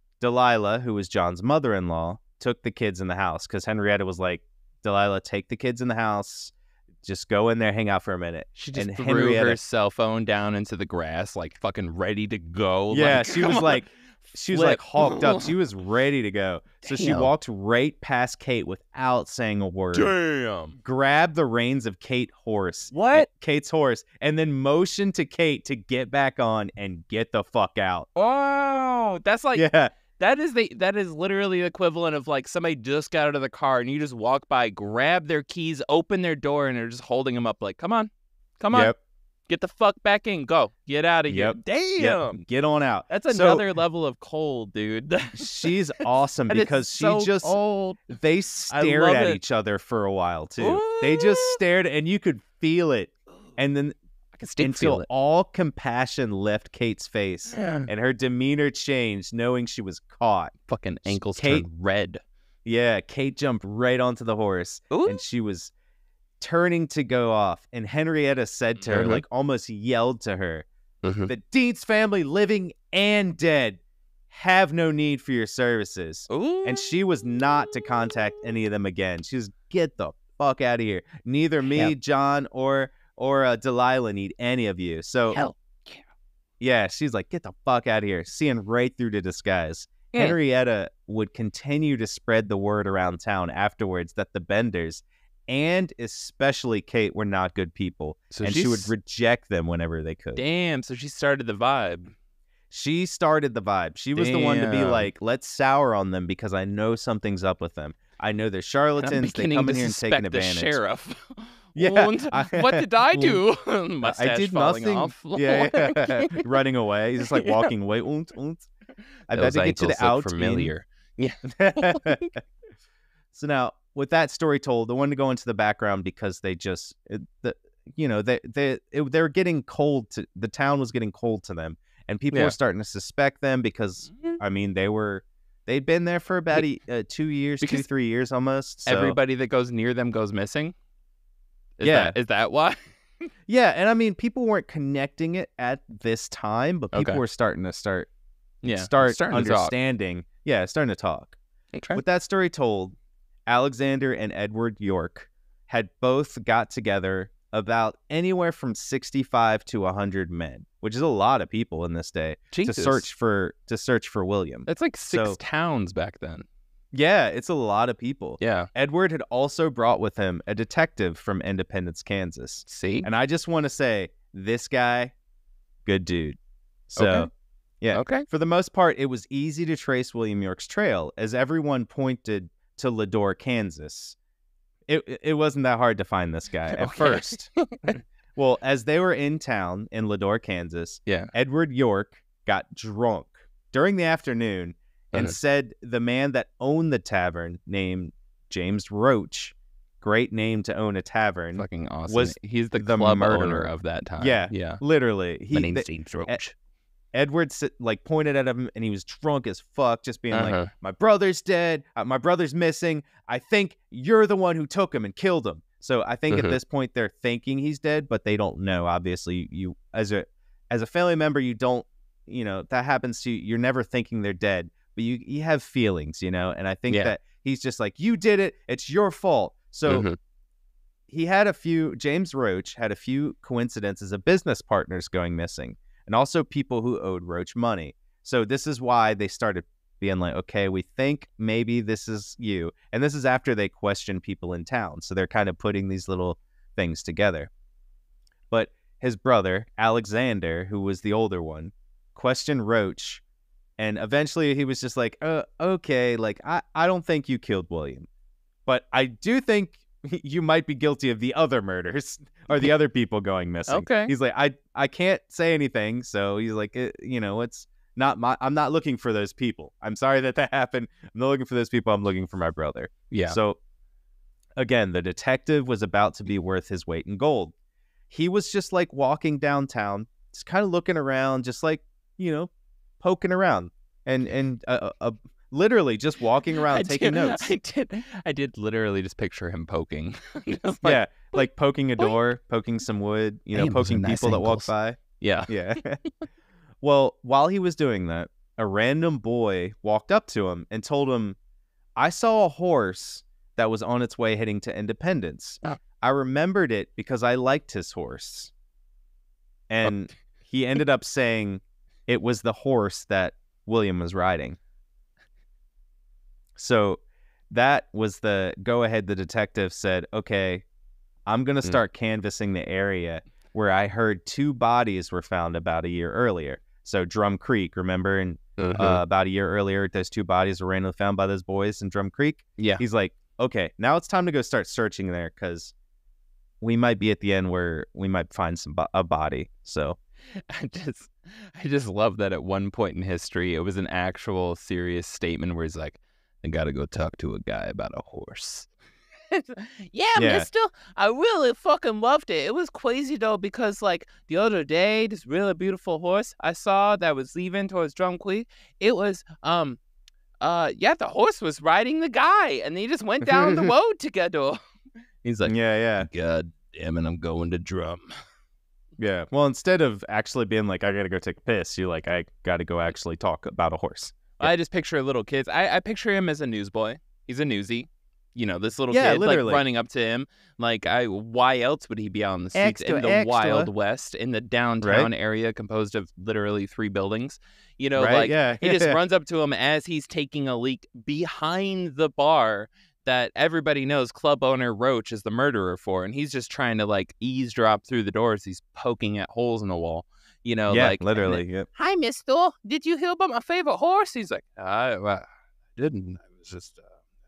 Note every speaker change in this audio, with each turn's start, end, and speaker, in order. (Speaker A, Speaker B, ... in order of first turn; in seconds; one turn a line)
Speaker A: 0.2-9.6
Speaker B: 8.6-13.9
Speaker A: 12.9-20.1
Speaker B: 14.5-15.5
Speaker B: 16.8-17.3
Speaker B: 19.9-20.8
Speaker A: 20.8-28.1
Speaker B: 22.9-23.3
Speaker B: 28.1-38.9
Speaker A: 29.6-29.9
Speaker B: 39.5-42.4
Speaker A: 41.3-43.7
Speaker B: 43.1-45.7
Speaker A: 45.3-47.6
Speaker B: 46.5-48.1
Speaker A: 48.1-54.0
Speaker B: 48.7-49.4
Speaker B: 50.6-51.6
Speaker B: 54.3-55.1
Speaker A: 54.6-60.5
Speaker B: 57.5-57.9
Speaker B: 60.7-62.2
Speaker A: 61.1-61.7
Speaker A: 62.6-65.7
Speaker B: 64.9-65.2
Speaker A: 66.4-70.7
Speaker B: 68.8-69.2
Speaker B: 71.0-71.3
Speaker A: 71.3-85.4
Speaker B: 76.3-76.9
Speaker B: 81.7-81.9
Speaker B: 85.3-86.0
Speaker A: 86.6-100.4
Speaker B: 98.3-98.9
Speaker B: 100.4-102.1
Speaker A: 102.7-110.8
Speaker B: 104.2-105.1
Speaker B: 109.0-116.5
Speaker A: 111.8-113.4
Speaker A: 114.0-118.7
Speaker B: 117.2-117.7
Speaker A: 119.3-120.7
Speaker B: 119.3-122.4
Speaker A: 121.5-122.3
Speaker A: 123.3-139.2
Speaker B: 134.1-134.4
Speaker B: 137.6-137.9
Speaker B: 138.9-140.8
Speaker B: 141.8-142.9
Speaker A: 141.8-142.2
Speaker A: 143.5-148.1
Speaker B: 146.9-147.2
Speaker B: 148.6-149.7
Speaker A: 148.7-151.4
Speaker B: 151.7-152.0
Speaker A: 151.9-152.9
Speaker A: 153.5-165.4
Speaker B: 162.5-163.1
Speaker B: 164.7-166.5
Speaker A: 166.9-175.1
Speaker B: 168.4-168.7
Speaker B: 172.7-173.1
Speaker A: 175.9-176.4
Speaker A: 176.9-184.2
Speaker B: 177.0-177.3
Speaker B: 177.9-178.3
Speaker A: 184.9-206.4
Speaker B: 186.8-187.9
Speaker B: 191.1-191.3
Speaker B: 201.6-204.8
Speaker B: 205.5-206.5
Speaker A: 207.1-230.1
Speaker B: 210.3-210.7
Speaker B: 216.3-216.6
Speaker B: 226.9-227.2
Speaker B: 229.9-230.2
Speaker A: 231.1-247.5
Speaker A: 248.5-253.2
Speaker A: 253.8-258.1
Speaker A: 258.7-273.6
Speaker B: 263.7-264.1
Speaker B: 273.1-273.4
Speaker A: 274.6-277.5
Speaker A: 278.1-287.5
Speaker B: 286.7-292.2
Speaker A: 290.8-296.0
Speaker B: 293.5-296.3
Speaker A: 296.8-301.4
Speaker A: 302.0-308.5
Speaker A: 309.7-314.6
Speaker A: 316.6-320.6
Speaker A: 321.3-335.7
Speaker B: 328.6-329.0
Speaker B: 332.6-332.8
Speaker A: 336.6-340.0
Speaker B: 340.3-348.7
Speaker B: 349.3-359.8
Speaker A: 350.2-350.5
Speaker B: 360.4-364.6
Speaker B: 365.2-368.1
Speaker A: 365.4-366.1
Speaker A: 369.0-374.5
Speaker B: 374.4-406.9
Speaker A: 378.9-379.6
Speaker A: 382.6-383.7
Speaker A: 384.8-385.1
Speaker A: 387.9-389.0
Speaker A: 400.7-401.7